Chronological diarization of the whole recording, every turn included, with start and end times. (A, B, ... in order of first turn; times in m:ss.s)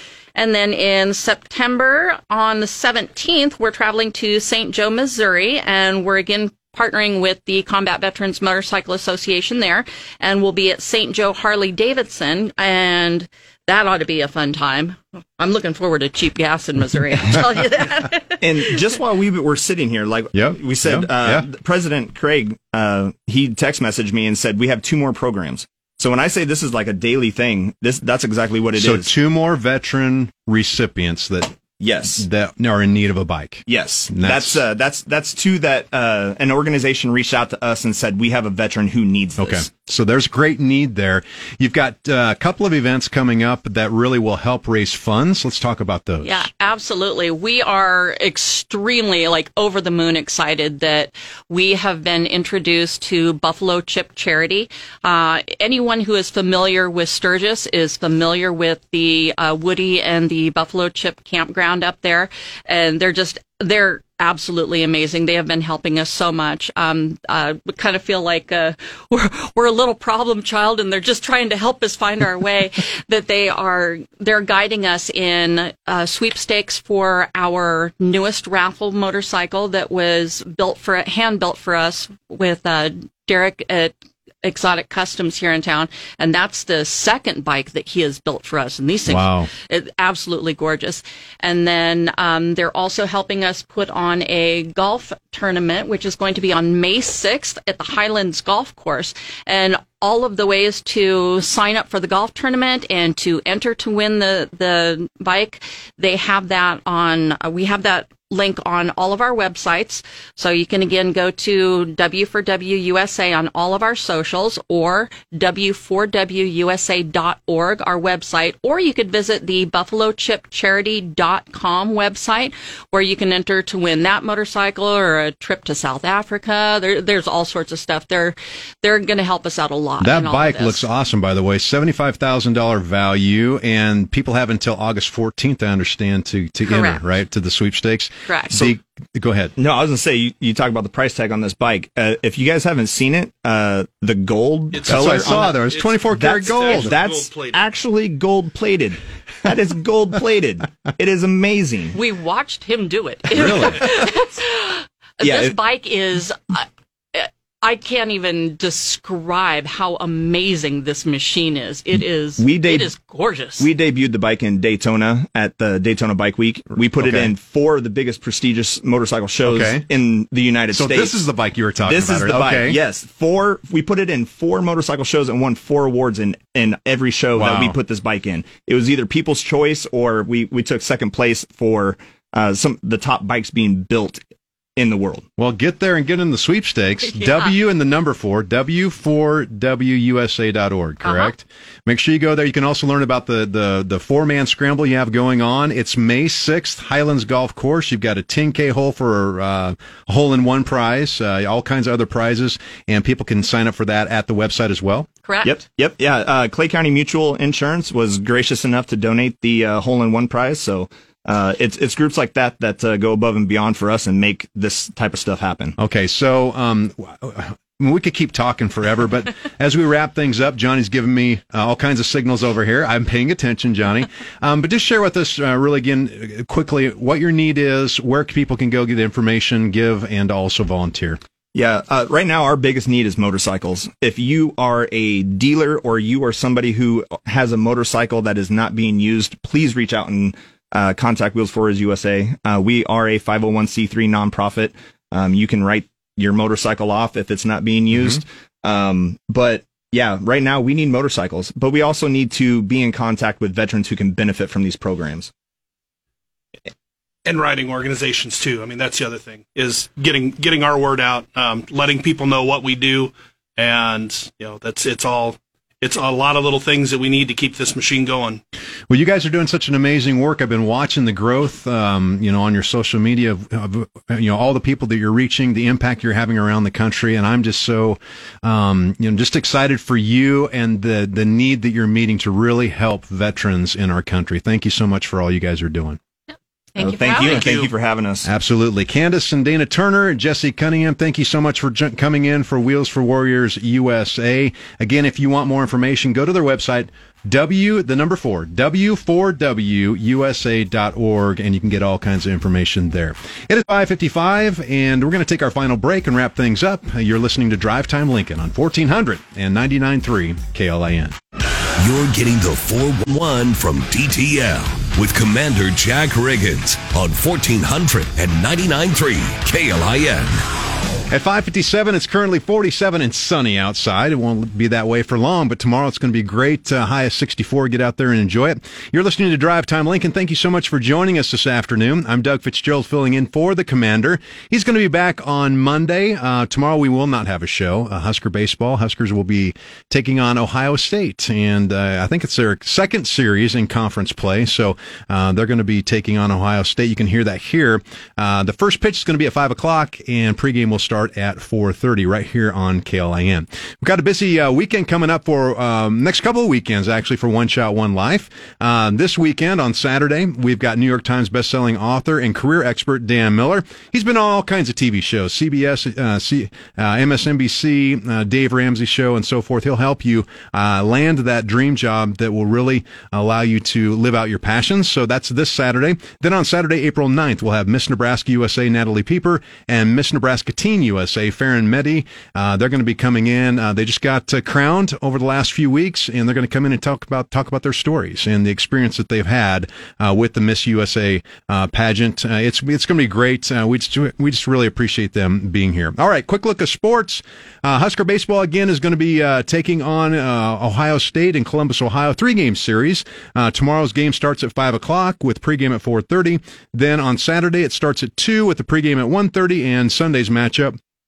0:00.4-0:18.4 A
0:18.4-0:29.1 B
0:20.3-0:21.5 C
0:28.8-0:31.6 C
0:31.8-0:32.2 B
0:32.2-0:34.6 C
0:33.7-0:39.7 B
0:39.4-0:46.5 C
0:46.2-2:10.9 A
1:29.1-1:29.5 C
2:10.0-2:19.5 C
2:16.6-2:17.0 A
2:18.3-2:18.5 A
2:19.6-2:32.0 B
2:24.7-2:27.6 D
2:24.9-2:27.0 C
2:31.9-2:43.7 A
2:33.4-2:33.9 C
2:35.2-2:35.6 B
2:42.4-2:42.9 B
2:43.6-2:51.1 B
2:47.0-2:47.3 C
2:49.4-2:49.8 C
2:50.7-2:52.8 C
2:51.9-3:04.2 B
2:57.4-2:57.8 C
3:04.8-3:05.3 B
3:05.4-3:25.1 C
3:07.2-3:07.5 A
3:11.0-3:11.3 A
3:25.2-3:25.6 A
3:25.4-3:35.8 B
3:35.8-3:51.2 C
3:51.5-4:15.3 B
4:17.3-4:28.4 D
4:28.9-4:46.0 C
4:46.8-4:47.6 A
4:46.8-4:48.3 B
4:47.2-4:47.7 D
4:48.2-5:11.2 C
5:11.8-5:20.4 E
5:21.1-6:50.8 C